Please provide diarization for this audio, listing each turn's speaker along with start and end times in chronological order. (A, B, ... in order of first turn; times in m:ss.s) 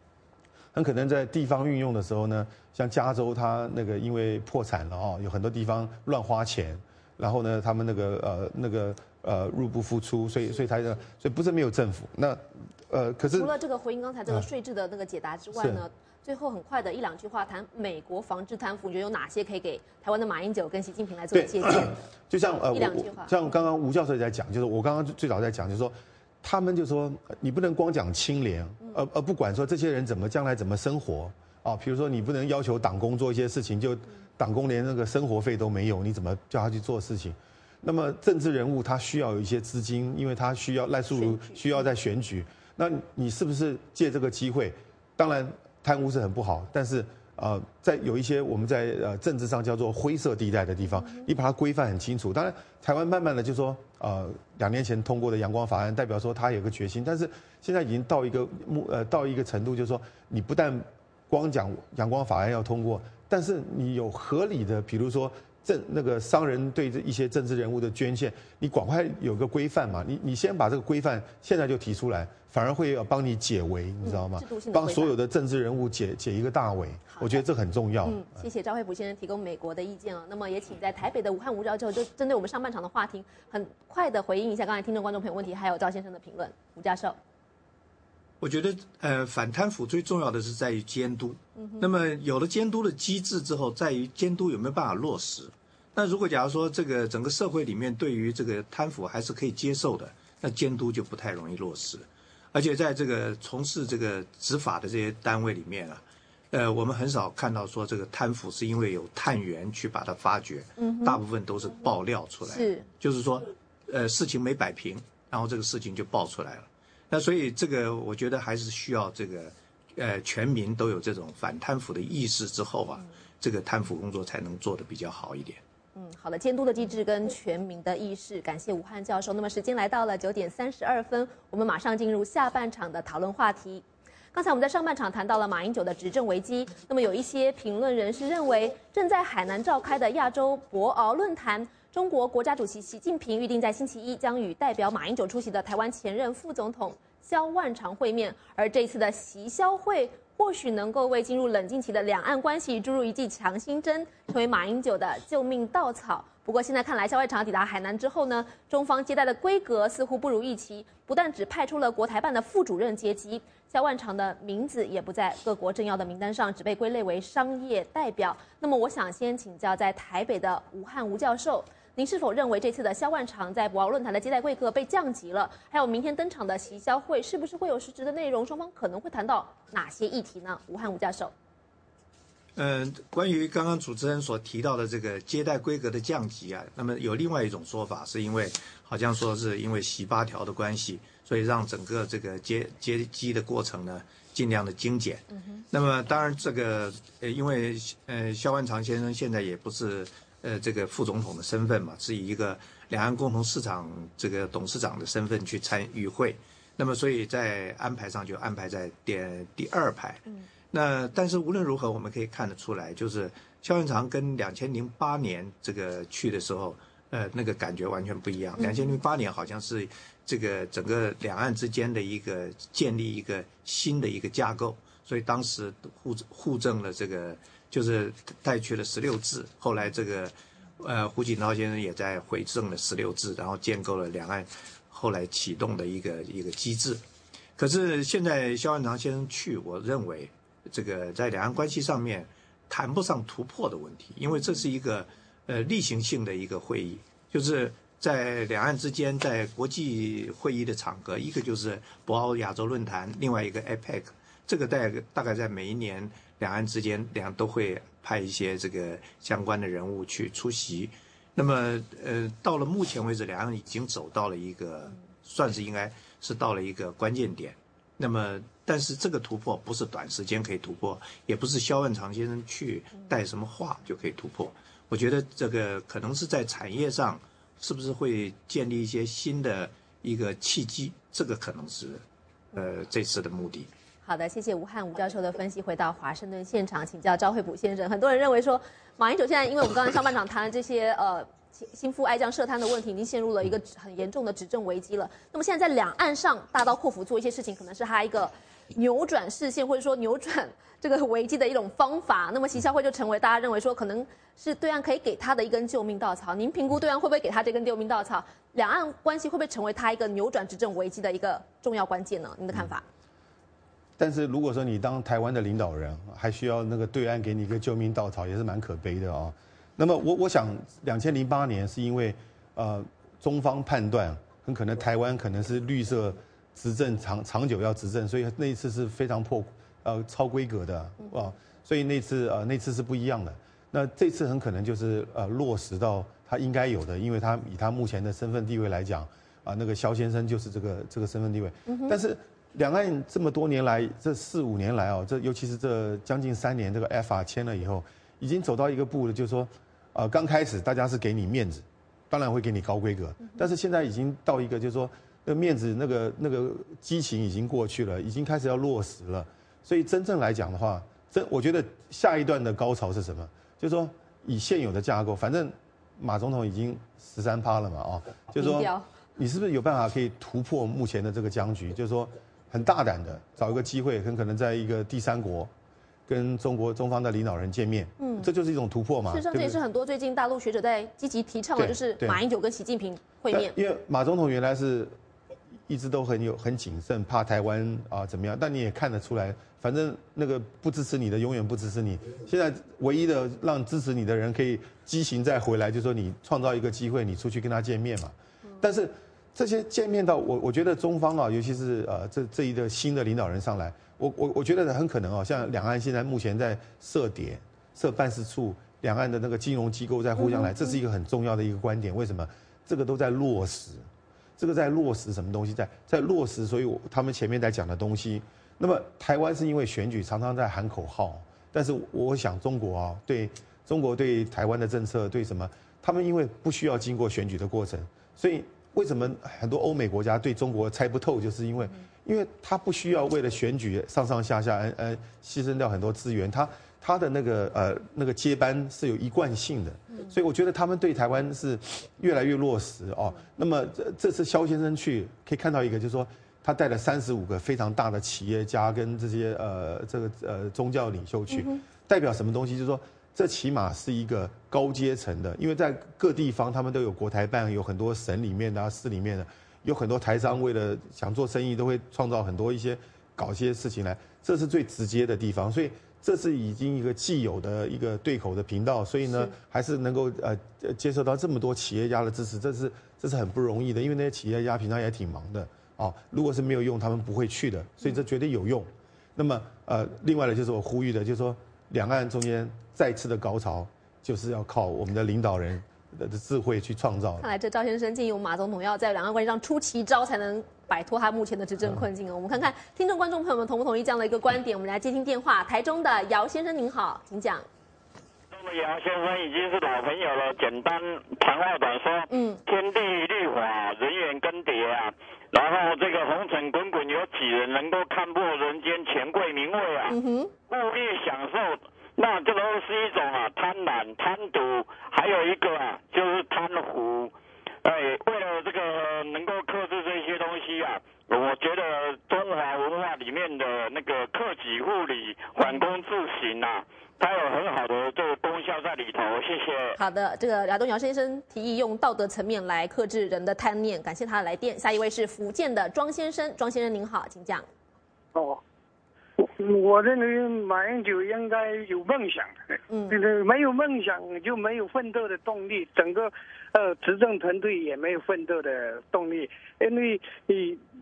0:00.7-0:13.5 A
0:13.4-0:22.0 B
0:15.5-0:15.8 A
0:21.3-1:18.4 A
0:22.7-0:23.5 B
0:41.1-0:41.6 B
0:50.9-0:51.3 B
1:14.0-1:15.1 B
1:18.0-1:27.2 B
1:28.4-2:05.6 C
1:31.6-1:31.9 B
1:50.8-1:51.2 B
1:52.5-1:52.8 B
2:05.9-3:01.3 B
3:02.6-3:57.0 C
3:15.3-3:15.6 B
3:38.6-3:39.0 B
3:57.6-4:42.0 C
4:42.5-4:43.7 C
4:44.0-5:12.8 B
5:14.0-6:15.5 A
5:31.0-5:31.3 B
5:41.7-5:42.0 B
6:08.4-6:08.8 B
6:16.1-6:19.6 A
6:18.0-6:18.3 B
6:19.1-6:23.5 B
6:21.6-6:22.2 A
6:23.3-6:24.9 A
6:25.7-6:53.9 A
6:50.2-6:50.7 B
6:54.4-8:07.2 A
7:31.3-7:31.6 B
8:07.2-8:17.4 B
8:18.3-8:30.0 D
8:22.1-8:22.4 B
8:29.9-8:30.3 B
8:30.5-8:37.1 D
8:37.6-8:49.8 D
8:49.8-8:57.4 B
8:58.1-8:58.4 E
8:59.2-9:10.6 E
9:02.7-9:03.0 B